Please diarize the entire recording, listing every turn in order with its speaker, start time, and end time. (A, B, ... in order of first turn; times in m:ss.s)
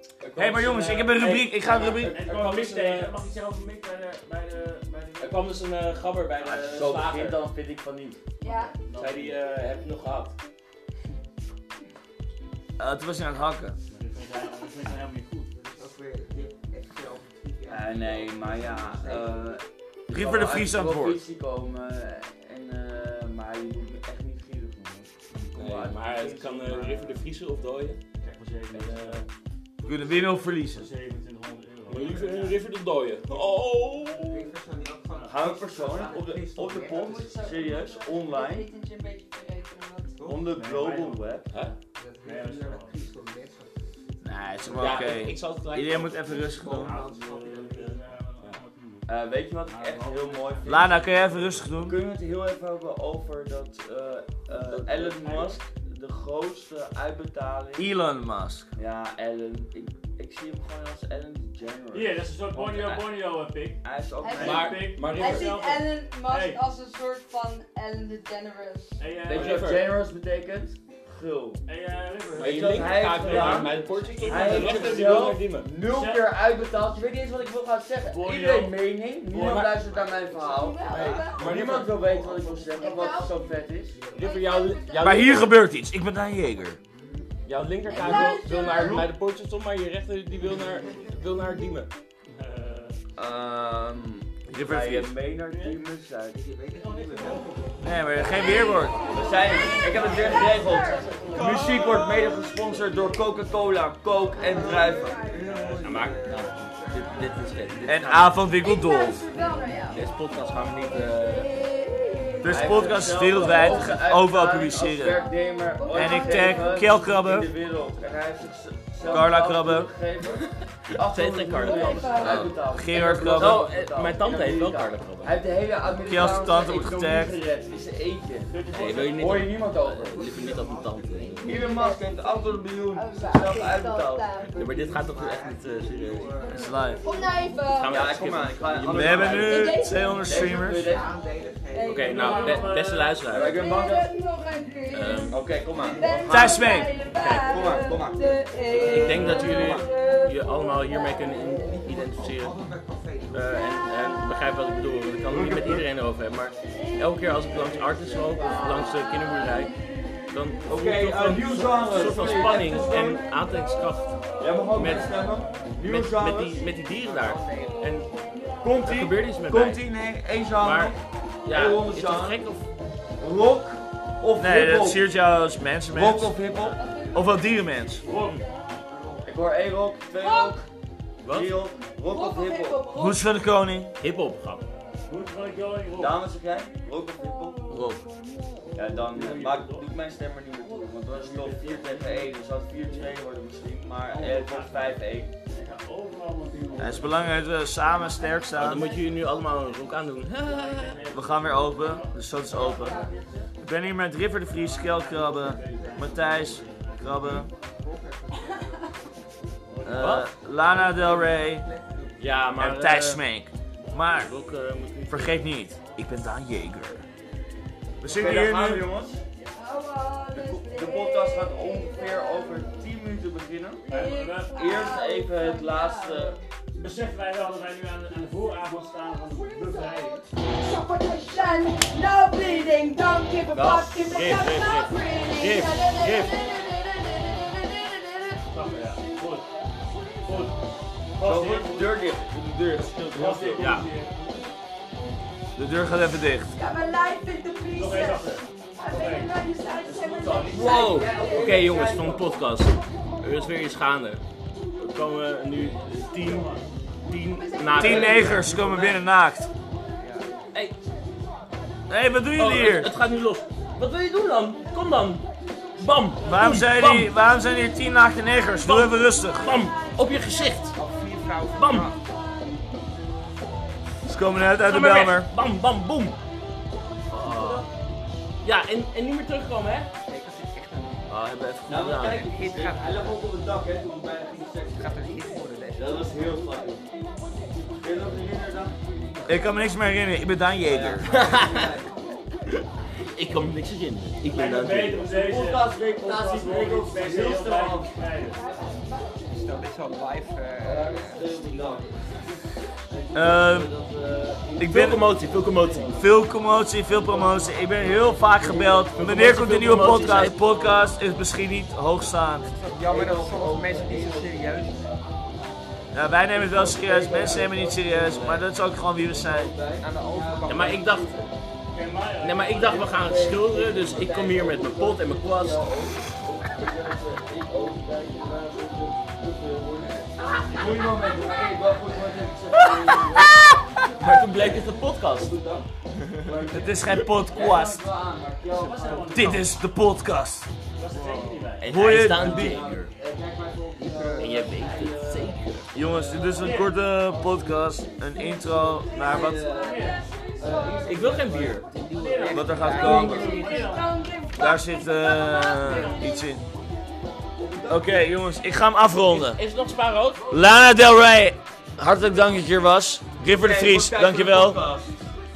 0:00.2-0:03.2 A
0:00.3-0:02.2 B
0:02.0-0:05.5 C
0:05.2-0:07.4 A
0:06.4-0:08.2 D
0:08.4-0:08.8 E
0:08.7-0:09.4 C
0:08.9-0:10.4 A
0:12.8-0:13.8 B
0:13.9-0:15.5 C
0:15.5-0:19.5 F
0:17.7-0:27.2 D
0:20.1-0:21.2 B
0:25.6-0:28.0 A
0:28.2-0:29.3 C
0:28.7-0:29.3 A
0:29.8-0:30.9 B
0:30.6-0:32.6 C
0:31.9-0:34.5 A
0:34.0-0:37.4 F
0:35.1-0:35.4 C
0:35.2-0:38.7 D
0:36.9-0:40.3 E
0:40.2-0:40.4 F
0:40.2-0:41.5 D
0:40.4-0:41.4 C
0:41.5-0:41.8 A
0:42.0-0:43.9 F
0:42.2-0:43.0 C
0:44.2-0:47.0 B
0:44.7-0:45.2 D
0:44.7-0:46.4 A
0:46.4-0:48.0 F
0:46.7-0:50.8 C
0:47.6-0:48.6 A
0:49.1-0:57.9 D
0:50.6-0:52.0 B
0:54.6-0:55.1 A
0:55.0-0:55.6 C
0:57.8-0:58.7 B
0:58.7-1:03.0 D
1:01.9-1:03.8 C
1:03.8-1:05.0 D
1:04.2-1:09.0 E
1:04.3-1:05.5 A
1:04.4-1:06.6 C
1:09.0-1:09.7 C
1:09.2-1:11.6 D
1:09.3-1:09.9 A
1:11.6-1:15.2 C
1:12.4-1:15.8 A
1:12.4-1:24.0 D
1:13.9-1:14.2 E
1:15.8-1:16.3 C
1:18.0-1:19.8 C
1:19.8-1:23.1 F
1:20.5-1:21.6 E
1:20.9-1:22.2 A
1:22.7-1:23.6 E
1:23.9-1:24.3 F
1:24.1-1:25.6 A
1:24.1-1:25.5 E
1:25.0-1:26.8 B
1:27.4-1:31.9 A
1:27.8-1:28.9 E
1:27.9-1:29.1 D
1:30.5-1:31.0 F
1:32.3-1:33.0 C
1:33.2-1:36.4 D
1:34.5-1:35.2 B
1:35.4-1:35.8 C
1:36.3-1:37.9 F
1:36.7-1:37.5 C
1:37.8-1:39.0 B
1:38.4-1:38.9 E
1:38.8-1:39.4 F
1:39.1-1:45.2 D
1:39.3-1:41.6 C
1:39.9-1:41.2 E
1:41.3-1:41.9 F
1:41.4-1:42.2 A
1:44.3-1:47.8 F
1:44.3-1:45.5 E
1:45.4-1:48.4 A
1:45.5-1:45.9 C
1:47.8-1:49.2 B
1:48.5-1:54.0 E
1:49.9-1:51.5 A
1:52.4-1:55.2 B
1:52.4-2:10.6 D
1:54.8-1:57.2 E
1:55.9-1:57.5 B
1:59.0-1:59.9 B
2:01.0-2:02.6 A
2:01.5-2:02.6 E
2:02.7-2:03.7 B
2:03.3-2:05.4 A
2:06.0-2:07.4 B
2:08.4-2:09.5 C
2:08.7-2:11.6 A
2:10.0-2:11.7 F
2:11.4-2:14.3 D
2:11.4-2:14.6 E
2:14.4-2:17.4 F
2:14.5-2:16.7 A
2:16.5-2:17.0 B
2:16.5-2:18.0 E
2:17.7-2:19.6 A
2:17.9-2:21.2 D
2:18.9-2:20.9 B
2:19.2-2:20.7 E
2:20.6-2:22.4 F
2:21.7-2:31.3 E
2:21.9-2:23.6 A
2:22.1-2:23.3 C
2:23.3-2:24.1 D
2:24.9-2:25.4 A
2:25.2-2:26.6 D
2:25.8-2:26.0 F
2:26.3-2:26.9 B
2:27.1-2:27.6 A
2:27.2-2:29.9 D
2:28.7-2:29.2 F
2:28.8-2:32.6 A
2:31.6-2:33.8 F
2:33.3-2:39.7 A
2:35.2-2:35.9 D
2:37.4-2:38.9 D
2:40.3-2:45.2 A
2:40.6-2:43.2 D
2:42.2-2:42.6 E
2:44.4-2:46.7 D
2:45.8-2:48.1 A
2:47.0-2:48.0 F
2:48.6-2:52.4 D
2:48.8-2:49.8 A
2:50.6-2:52.6 A
2:53.2-2:55.0 D
2:54.4-2:56.4 B
2:55.9-2:56.8 D
2:56.7-2:57.3 E
2:57.1-2:58.0 B
2:58.0-2:58.4 C
2:58.9-2:59.4 F
2:59.2-3:00.6 D
3:00.2-3:00.6 E
3:01.2-3:01.6 A
3:01.3-3:02.8 D
3:02.0-3:03.3 E
3:02.9-3:03.9 B
3:04.0-3:04.7 A
3:05.1-3:06.2 C
3:06.0-3:07.6 D
3:07.7-3:08.0 B
3:08.8-3:15.3 D
3:09.1-3:09.9 C
3:11.1-3:12.3 C
3:14.0-3:17.6 C
3:16.8-3:18.9 B
3:17.7-3:19.3 E
3:18.6-3:21.1 A
3:20.3-3:23.5 C
3:21.1-3:23.0 B
3:22.7-3:23.2 E
3:23.6-3:27.5 B
3:24.5-3:27.2 C
3:25.6-3:26.0 F
3:27.6-3:28.7 F
3:29.7-3:30.1 C
3:29.8-3:31.6 B
3:29.9-3:30.3 A
3:30.7-3:32.3 F
3:32.2-3:33.2 A
3:32.6-3:34.4 B
3:34.2-3:35.4 A
3:35.1-3:37.0 B
3:38.0-3:38.9 B
3:38.0-3:39.2 D
3:39.4-3:42.7 E
3:40.3-3:43.9 D
3:43.9-3:44.7 C
3:43.9-3:46.4 E
3:44.5-3:46.4 D
3:46.8-3:50.2 C
3:49.5-3:59.2 E
3:53.5-3:56.3 A
3:58.5-3:59.4 C
4:00.2-4:00.6 C
4:01.2-4:02.1 C
4:01.2-4:03.8 D
4:03.0-4:04.5 C
4:03.6-4:03.9 A
4:05.6-4:06.5 B
4:06.5-4:11.6 E
4:07.7-4:10.6 C
4:10.2-4:12.3 D
4:10.7-4:14.2 A
4:14.8-4:16.5 A
4:16.2-4:16.6 C
4:17.0-4:18.8 A
4:17.3-4:18.5 E
4:17.8-4:19.5 B
4:17.8-4:18.9 D
4:20.0-4:20.4 F
4:21.9-4:23.0 B
4:22.4-4:25.2 A
4:25.7-4:27.1 A
4:26.2-4:29.6 B
4:28.6-4:30.8 A
4:29.4-4:30.7 E
4:30.7-4:32.0 F
4:31.5-4:31.9 A
4:31.7-4:32.7 E
4:34.0-4:35.3 B
4:34.6-4:36.2 A
4:37.1-4:37.6 B
4:38.4-4:39.9 A
4:40.0-4:41.1 F
4:41.1-4:42.3 B
4:41.6-4:46.8 D
4:42.0-4:43.2 F
4:44.7-4:46.2 F
4:47.8-4:48.8 D
4:49.2-4:51.1 B
4:50.6-4:51.9 D
4:51.0-4:51.8 A
4:52.6-4:55.1 A
4:54.2-4:58.5 C
4:55.0-4:58.0 D
4:59.2-5:02.0 F
5:00.6-5:06.0 D
5:03.1-5:03.7 B
5:04.6-5:05.1 B
5:04.6-5:06.1 A
5:05.6-5:06.1 C
5:05.9-5:12.5 B
5:06.9-5:11.1 D
5:08.5-5:10.4 A
5:12.5-5:14.9 F
5:12.8-5:15.0 D
5:15.9-5:19.6 B
5:16.3-5:18.5 D
5:19.0-5:21.4 D
5:19.8-5:21.0 F
5:20.4-5:21.2 A
5:21.7-5:22.8 C
5:22.2-5:25.7 A
5:22.5-5:39.4 D
5:30.5-5:30.8 C
5:34.0-5:35.4 A
5:36.5-5:37.8 B
5:37.3-5:37.6 C
5:38.5-5:39.5 F
5:38.5-5:39.5 C
5:39.1-5:40.5 B
5:40.7-5:41.7 C
5:40.9-5:41.6 F
5:41.6-5:42.9 A
5:41.7-5:42.5 B
5:41.9-5:47.4 D
5:43.8-5:44.6 F
5:44.2-5:45.7 A
5:45.7-5:49.5 B
5:46.4-5:46.7 C
5:48.1-5:51.2 E
5:48.9-5:53.6 D
5:49.6-5:50.0 C
5:50.8-5:51.7 A
5:51.7-5:53.5 F
5:51.9-5:54.0 C
5:52.3-5:53.3 B
5:53.0-5:56.3 E
5:54.4-5:56.4 B
5:55.7-5:56.0 C
5:57.4-5:57.9 D
5:57.7-5:59.4 B
5:59.0-6:00.2 A
6:00.2-6:00.4 C
6:00.3-6:04.6 B
6:03.2-6:05.0 D